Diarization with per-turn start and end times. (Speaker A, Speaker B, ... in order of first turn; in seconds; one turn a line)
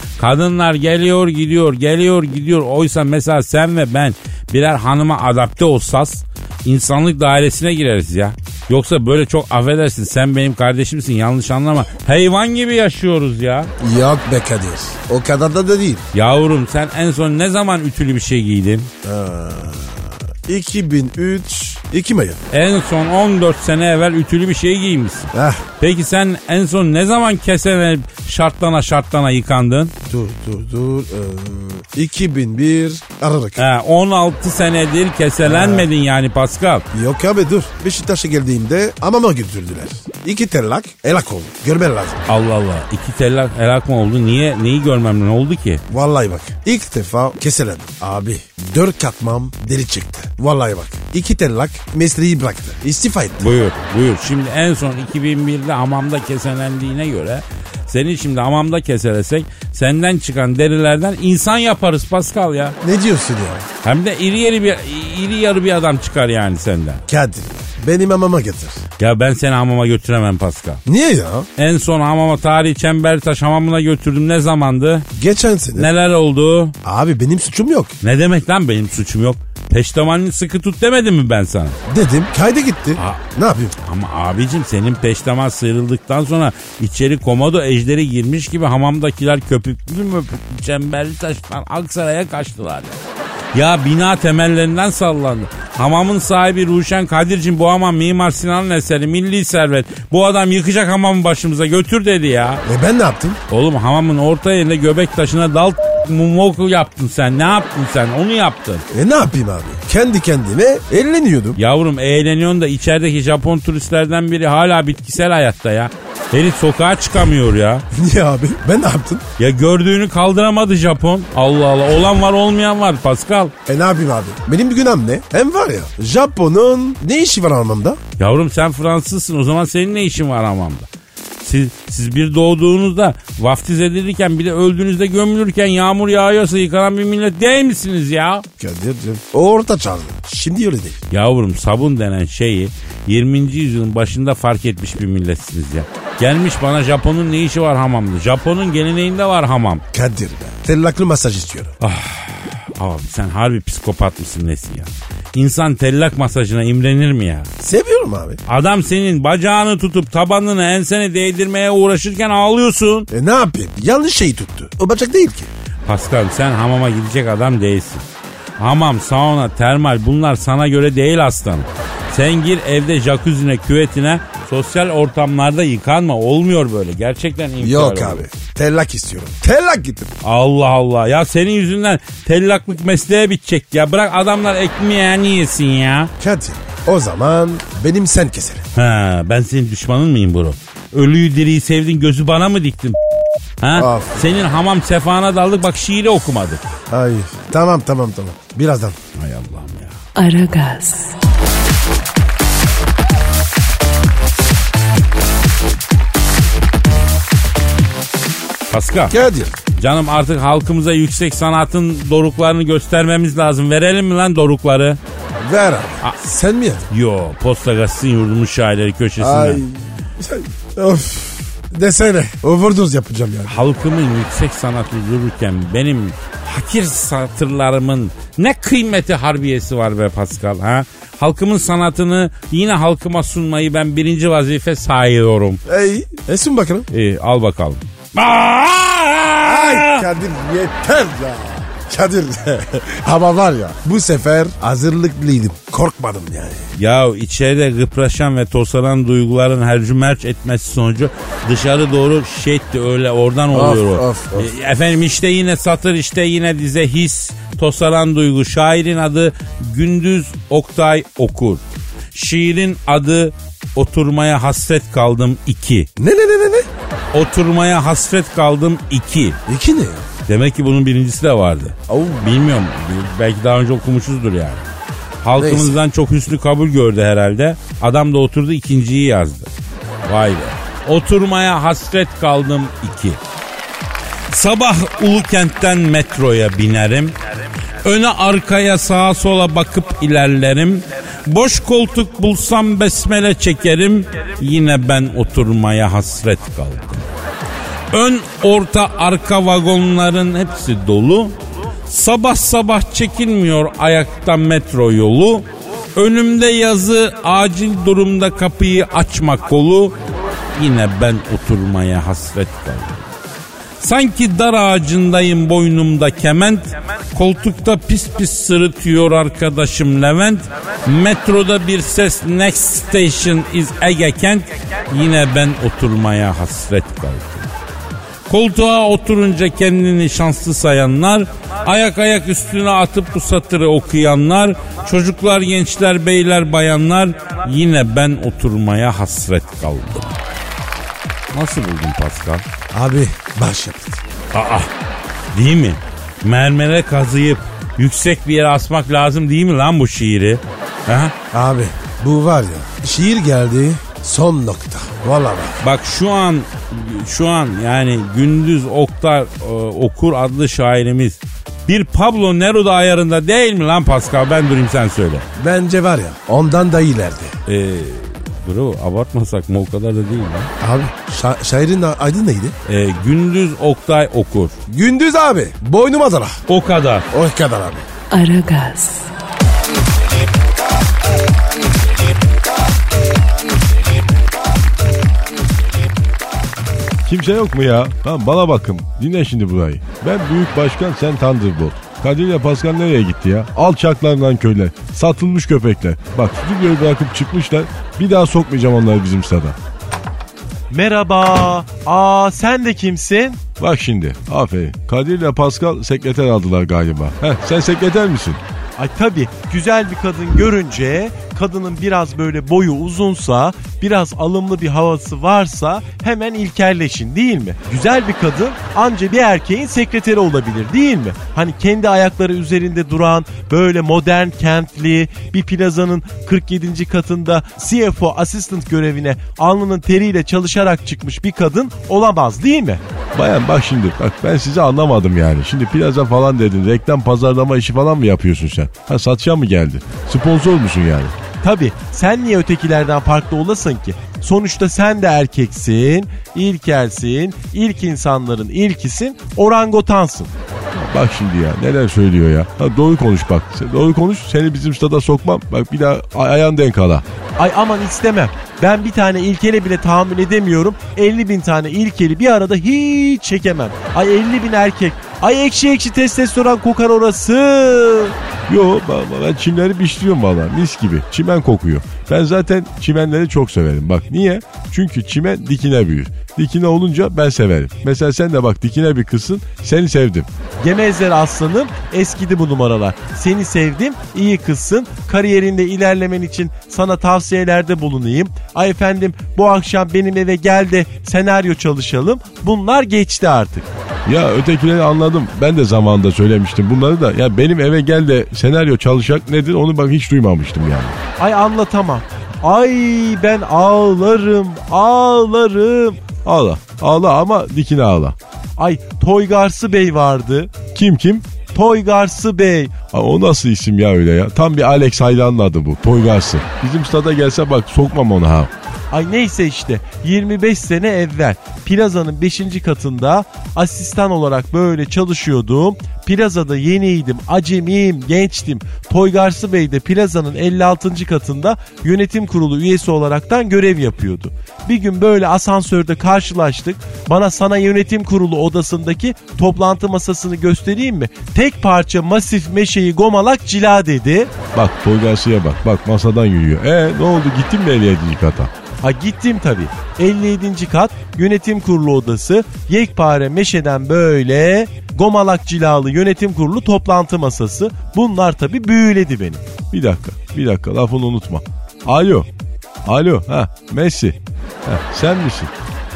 Speaker A: 0.2-13.7
Speaker B: 13.8-16.0
Speaker A: 16.1-18.9
Speaker B: 19.0-22.4
Speaker A: 22.5-29.9
Speaker B: 25.3-25.6
Speaker B: 30.1-33.6
Speaker A: 33.6-36.8
Speaker B: 35.4-35.9
Speaker B: 36.9-42.2
Speaker A: 42.3-45.8
Speaker B: 45.9-53.5
Speaker A: 53.4-62.8
Speaker B: 62.8-63.6
Speaker A: 63.8-67.0
Speaker B: 67.1-68.8
Speaker A: 69.0-70.8
Speaker B: 70.8-71.5
Speaker A: 71.6-75.1
Speaker B: 75.1-75.9
Speaker A: 75.7-76.7
Speaker B: 76.8-77.9
Speaker A: 78.0-81.8
Speaker B: 81.9-83.7
Speaker A: 83.0-83.2
Speaker A: 83.8-93.0
Speaker A: 93.5-102.6
Speaker B: 102.6-103.4
Speaker A: 103.5-108.8
Speaker B: 108.9-111.6
Speaker A: 111.6-117.8
Speaker B: 117.9-119.2
Speaker A: 119.4-123.5
Speaker B: 123.7-128.0
Speaker A: 128.2-130.9
Speaker A: 131.4-138.4
Speaker B: 138.6-141.0
Speaker A: 141.1-149.8
Speaker B: 149.9-151.7
Speaker A: 151.8-157.5
Speaker B: 157.6-158.4
Speaker A: 158.4-163.1
Speaker B: 163.1-165.5
Speaker A: 165.8-168.0
Speaker A: 168.6-178.2
Speaker B: 177.6-180.1
Speaker A: 180.2-186.1
Speaker B: 186.2-188.7
Speaker A: 188.7-193.0
Speaker A: 193.6-196.6
Speaker B: 193.7-194.3
Speaker B: 196.9-198.9
Speaker A: 199.1-200.0
Speaker C: 200.2-201.1
Speaker A: 208.7-209.1
Speaker B: 209.1-209.5
Speaker A: 209.8-215.0
Speaker B: 215.4-216.8
Speaker A: 216.9-219.6
Speaker B: 219.2-223.5
Speaker A: 223.5-235.6
Speaker B: 235.7-236.9
Speaker A: 236.9-240.1
Speaker B: 239.4-246.7
Speaker A: 246.8-261.6
Speaker B: 253.5-254.5
Speaker A: 262.1-265.9
Speaker B: 266.0-266.7
Speaker A: 267.1-269.4
Speaker B: 269.5-270.1
Speaker A: 270.3-274.6
Speaker A: 275.2-279.5
Speaker B: 275.4-275.8
Speaker A: 280.0-283.2
Speaker A: 284.3-287.1
Speaker A: 287.8-297.0
Speaker A: 297.9-310.0
Speaker A: 310.6-313.1
Speaker A: 313.8-327.5
Speaker A: 328.3-340.2
Speaker A: 341.3-342.4
Speaker B: 342.7-344.0
Speaker A: 344.3-344.7
Speaker A: 345.3-351.1
Speaker B: 351.3-355.6
Speaker A: 355.6-365.2
Speaker B: 365.4-367.3
Speaker A: 367.5-370.5
Speaker B: 370.6-372.6
Speaker A: 372.6-374.5
Speaker B: 374.7-376.4
Speaker A: 376.5-377.1
Speaker B: 377.1-377.8
Speaker C: 378.1-379.1
Speaker D: 387.0-399.6
Speaker E: 400.7-403.4
Speaker D: 403.6-408.4
Speaker E: 408.8-432.8
Speaker D: 433.1-441.1
Speaker E: 441.4-450.3
Speaker D: 450.7-457.0
Speaker E: 457.4-468.1
Speaker D: 468.5-480.3
Speaker E: 480.6-493.7
Speaker D: 494.1-501.0
Speaker E: 501.2-506.0
Speaker D: 506.2-508.1
Speaker E: 508.6-510.6
Speaker D: 510.7-511.3
Speaker E: 511.5-512.8
Speaker D: 512.9-518.5
Speaker E: 518.9-544.3
Speaker D: 544.5-548.5
Speaker E: 548.8-559.4
Speaker D: 559.7-562.3
Speaker D: 562.8-565.5